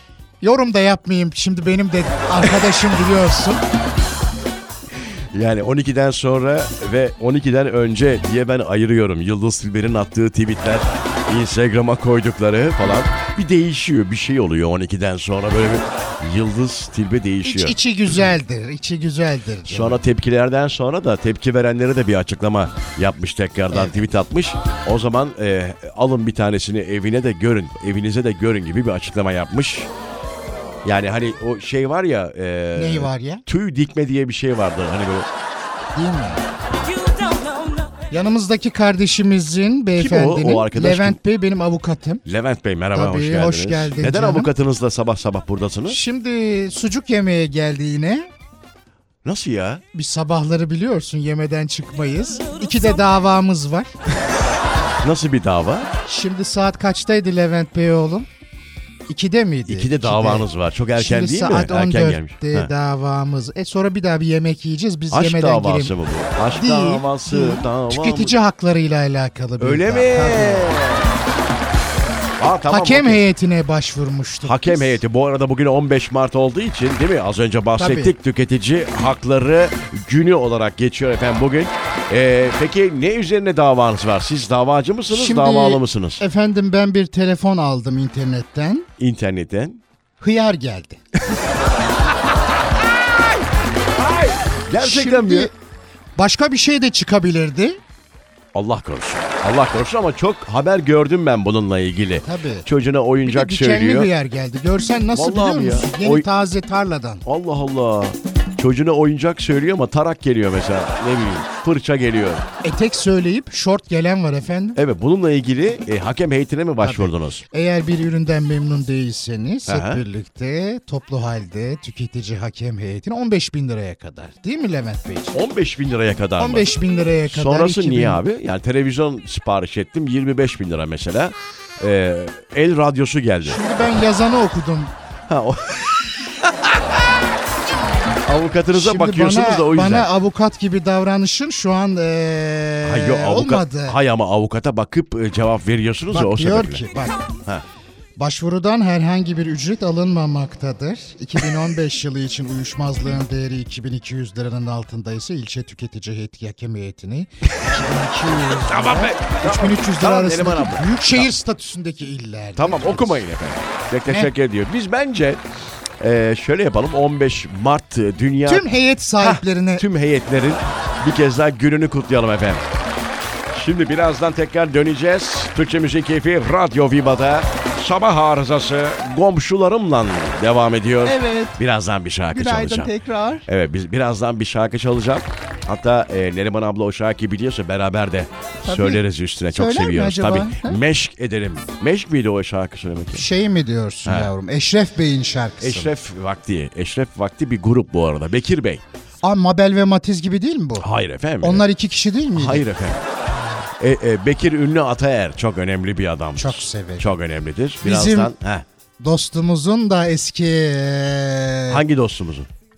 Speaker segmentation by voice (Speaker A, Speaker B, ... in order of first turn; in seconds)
Speaker A: 0.4-3.6, 17.4-20.0, 23.7-24.0, 32.7-33.4, 35.9-36.4, 38.1-42.2, 42.9-44.5, 45.9-48.3, 49.9-53.9, 56.1-58.3, 59.1-65.9, 66.5-70.8, 72.7-75.0, 77.8-78.1, 85.1-88.9, 90.2-91.0, 94.8-95.5, 96.2-97.8, 102.2-102.7, 103.2-107.2, 112.6-114.8, 116.8-125.4, 126.4-128.2, 133.4-134.9, 138.7-144.0, 146.1-147.2, 148.2-163.2, 164.1-164.3, 168.4-169.9, 193.1-195.9, 199.2-200.9, 201.4-202.6, 206.4-207.1, 207.8-208.3, 209.0-211.8
Speaker B: 5.3-17.8, 19.6-29.9, 30.8-35.3, 40.0-41.2, 42.2-46.0, 49.2-49.8, 55.0-55.9, 59.7-62.7, 65.1-68.3, 69.6-71.1, 72.4-73.2, 74.4-86.2, 89.0-89.8, 92.8-93.3, 93.9-95.5, 98.5-104.1, 105.1-106.3, 107.2-112.5, 114.8-117.4, 119.7-120.0, 125.3-126.7, 127.3-133.6, 135.3-137.0, 138.2-140.1, 142.8-146.8, 158.5-161.3, 162.6-165.4, 166.0-172.6, 173.5-182.9, 183.5-193.2, 194.1-194.3, 195.6-198.8, 200.8-201.7, 202.3-203.0, 203.8-208.7, 211.7-212.5
Speaker C: 181.0-181.6, 182.3-183.5, 188.7-189.0, 189.5-190.8